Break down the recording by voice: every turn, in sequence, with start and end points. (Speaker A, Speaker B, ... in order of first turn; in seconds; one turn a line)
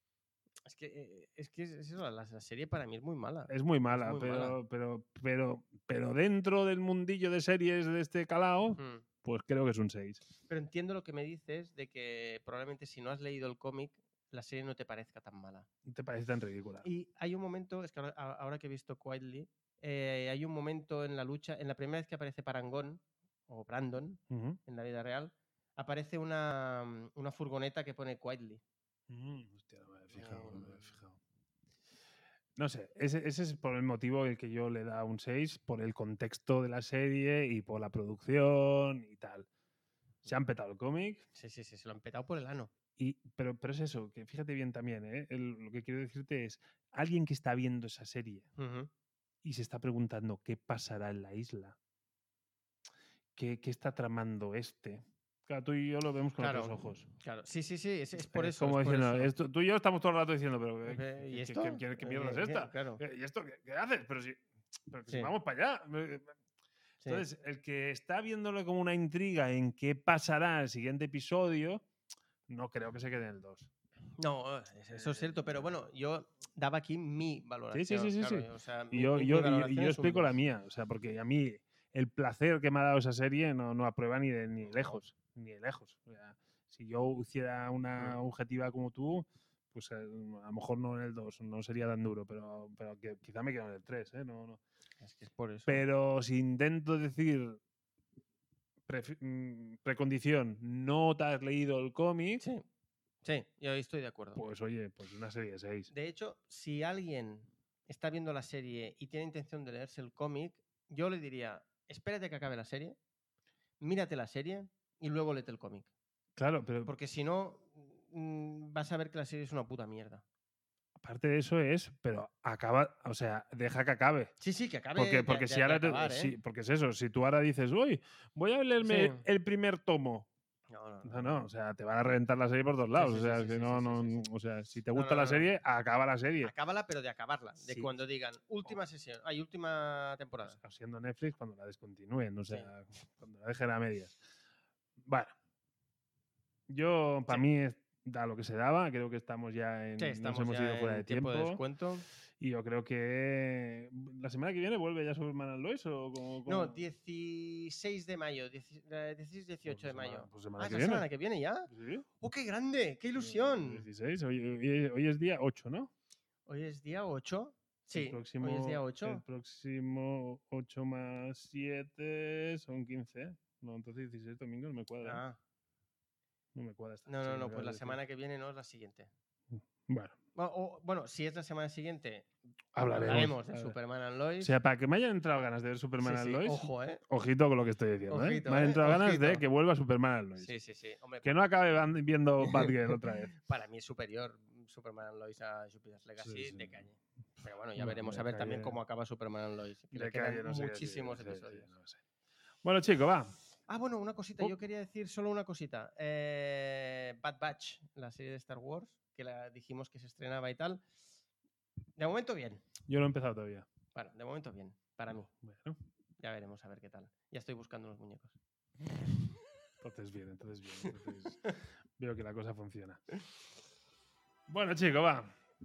Speaker A: 0.7-4.6
Speaker B: 3.5-10.2
Speaker A: 8.8-9.1
Speaker A: 10.5-15.7
Speaker B: 15.8-16.9
Speaker A: 16.8-28.6
Speaker B: 24.3-24.6
Speaker B: 29.1-31.2
Speaker A: 30.1-30.8
Speaker B: 32.6-39.5
Speaker B: 40.2-41.2
Speaker A: 41.4-42.7
Speaker B: 43.0-48.5
Speaker A: 48.6-48.9
Speaker B: 49.4-51.8
Speaker B: 53.4-57.1
Speaker A: 56.4-59.3
Speaker B: 58.2-66.3
Speaker A: 60.9-63.0
Speaker A: 65.1-65.3
Speaker B: 67.0-71.8
Speaker B: 72.5-73.7
Speaker A: 74.2-80.3
Speaker B: 74.9-75.7
Speaker B: 77.7-94.6
Speaker A: 84.7-85.0
Speaker A: 95.0-95.8
Speaker B: 95.7-97.6
Speaker B: 98.9-102.4
Speaker A: 103.2-104.4
Speaker B: 104.4-105.9
Speaker A: 105.9-113.0
Speaker A: 113.8-115.9
Speaker B: 116.4-116.9
Speaker A: 116.8-120.2
Speaker B: 121.0-124.3
Speaker A: 124.4-126.3
Speaker B: 125.0-130.3
Speaker A: 128.8-129.2
Speaker A: 130.7-131.4
Speaker B: 131.0-136.5
Speaker A: 132.9-134.2
Speaker A: 134.9-135.5
Speaker A: 136.4-140.6
Speaker B: 137.6-137.9
Speaker B: 140.5-144.2
Speaker B: 145.0-145.3
Speaker B: 146.7-151.6
Speaker A: 150.0-152.1
Speaker B: 152.4-156.8
Speaker A: 156.4-163.9
Speaker B: 159.7-161.1
Speaker B: 161.7-162.1
Speaker B: 163.2-165.9
Speaker A: 166.5-169.2
Speaker B: 167.9-175.2
Speaker A: 175.0-175.4
Speaker B: 176.6-178.0
Speaker A: 177.1-179.1
Speaker B: 179.5-180.2
Speaker A: 180.3-182.3
Speaker B: 182.7-183.8
Speaker A: 182.8-184.5
Speaker B: 184.4-190.5
Speaker A: 186.0-187.0
Speaker A: 188.1-189.4
Speaker A: 190.4-191.3
Speaker B: 191.2-193.3
Speaker A: 192.4-192.7
Speaker A: 193.4-201.7
Speaker B: 196.2-196.8
Speaker B: 197.8-198.8
Speaker B: 199.9-202.0
Speaker B: 202.6-203.3
Speaker A: 203.7-210.8
Speaker A: 212.0-212.7
Speaker B: 212.9-213.7
Speaker A: 213.9-215.3
Speaker B: 215.4-215.8
Speaker A: 216.2-218.4
Speaker B: 219.8-223.0
Speaker A: 220.8-221.6
Speaker B: 224.5-225.3